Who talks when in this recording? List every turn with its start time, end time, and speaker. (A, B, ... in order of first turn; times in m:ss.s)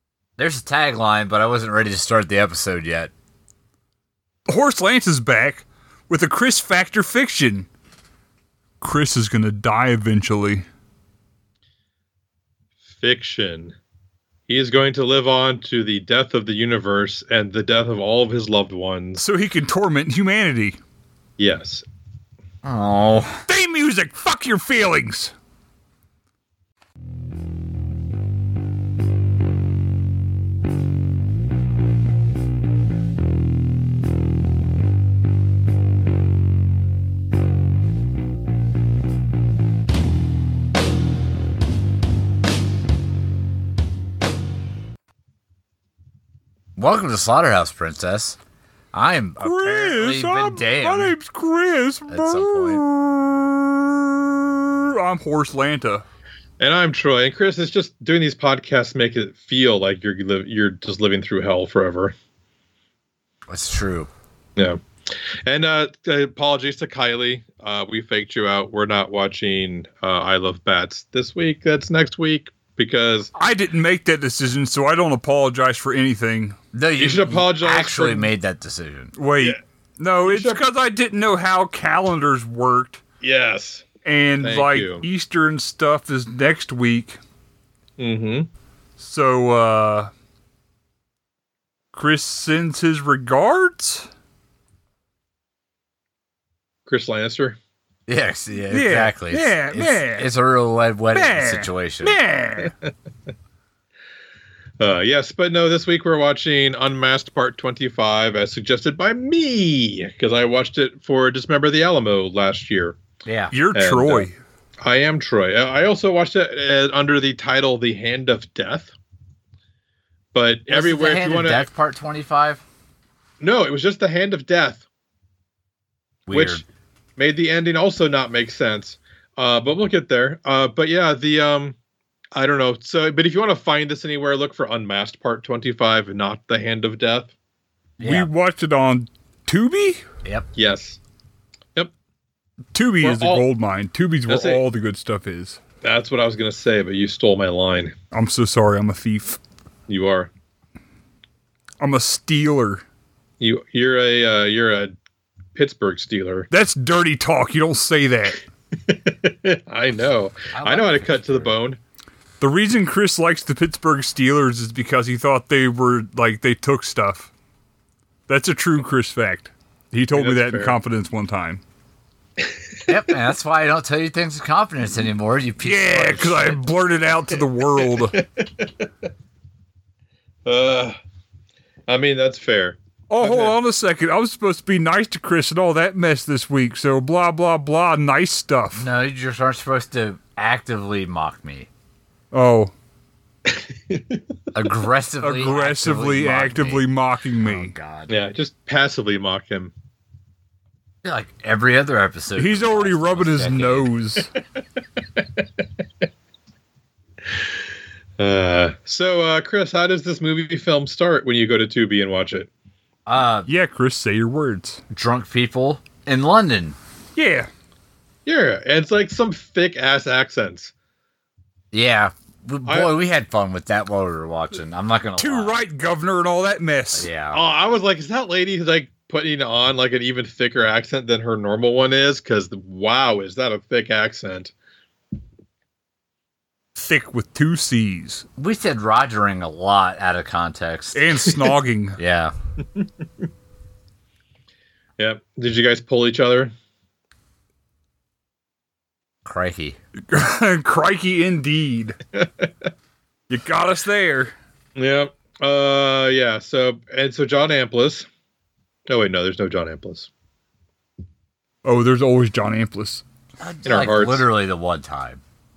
0:00.4-0:03.1 A
0:04.5-0:07.7 B
0:08.8-0:10.6 B
0:12.9-0:13.8 C
0:14.5-0:19.2 C
0:19.2-0:20.8 B
0:21.4-0:21.8 C
0:22.6-0:23.5 A
0:23.5-0:25.3 B
0:46.8-0:48.4 A
0:48.9-0:51.2 A
0:49.4-0:56.0 B
0:52.1-0:52.8 A
0:56.6-1:02.2 C
1:03.5-1:04.1 A
1:04.6-1:13.3 C
1:13.4-1:16.6 B
1:16.7-1:19.1 A
1:17.0-1:18.3 C
1:19.2-1:23.0 B
1:20.3-1:20.6 C
1:23.2-1:23.9 C
1:24.0-1:27.2 B
1:24.4-1:25.1 C
1:28.0-1:28.5 C
1:29.0-1:30.1 B
1:31.9-1:34.1 B
1:36.9-1:37.6 C
1:38.1-1:42.2 A
1:38.7-1:40.3 B
1:41.1-1:42.7 B
1:44.8-1:53.0 C
1:53.2-1:53.5 A
1:53.5-1:54.4 B
1:53.7-1:54.3 C
1:54.8-1:58.9 C
2:00.3-2:01.7 C
2:00.7-2:02.6 A
2:03.4-2:04.8 C
2:06.3-2:06.6 A
2:06.3-2:06.6 C
2:07.2-2:11.8 C
2:12.4-2:17.3 C
2:18.0-2:18.3 A
2:18.0-2:20.0 B
2:20.6-2:21.0 C
2:22.7-2:25.6 B
2:23.0-2:23.4 C
2:24.3-2:24.6 C
2:25.8-2:27.9 C
2:28.1-2:29.4 B
2:29.9-2:30.3 C
2:31.8-2:32.8 B
2:33.4-2:35.0 C
2:35.6-2:36.5 C
2:36.5-2:38.4 B
2:38.8-2:41.8 C
2:40.5-2:41.5 A
2:42.4-2:47.3 B
2:48.3-2:51.6 B
2:50.1-2:50.8 C
2:52.4-2:52.7 C
2:52.9-2:56.6 A
2:55.6-2:58.2 B
2:57.8-2:59.1 C
3:00.4-3:01.0 C
3:01.9-3:03.6 C
3:03.1-3:08.9 B
3:08.8-3:11.7 A
3:12.3-3:12.7 B
3:13.5-3:14.2 C
3:14.5-3:16.8 A
3:15.2-3:17.7 B
3:17.4-3:18.1 A
3:18.1-3:19.7 C
3:21.0-3:23.9 A
3:22.4-3:24.3 B
3:25.2-3:25.6 C
3:28.2-3:32.5 C
3:33.1-3:33.5 A
3:33.5-3:34.8 B
3:34.9-3:36.8 A
3:37.2-3:37.5 B
3:38.3-3:40.7 C
3:41.7-3:45.6 A
3:42.7-3:42.9 C
3:45.2-3:47.1 B
3:46.9-3:47.4 A
3:47.3-3:54.5 C
3:56.8-3:58.2 B
3:58.4-4:01.1 A
4:00.9-4:02.0 B
4:02.0-4:02.4 A
4:02.6-4:03.0 C
4:05.0-4:06.5 C
4:09.2-4:09.8 A
4:10.1-4:12.0 B
4:12.1-4:12.7 C
4:13.3-4:14.3 B
4:14.8-4:18.1 C
4:18.9-4:20.1 C
4:21.6-4:23.0 B
4:23.4-4:25.2 A
4:23.6-4:24.3 C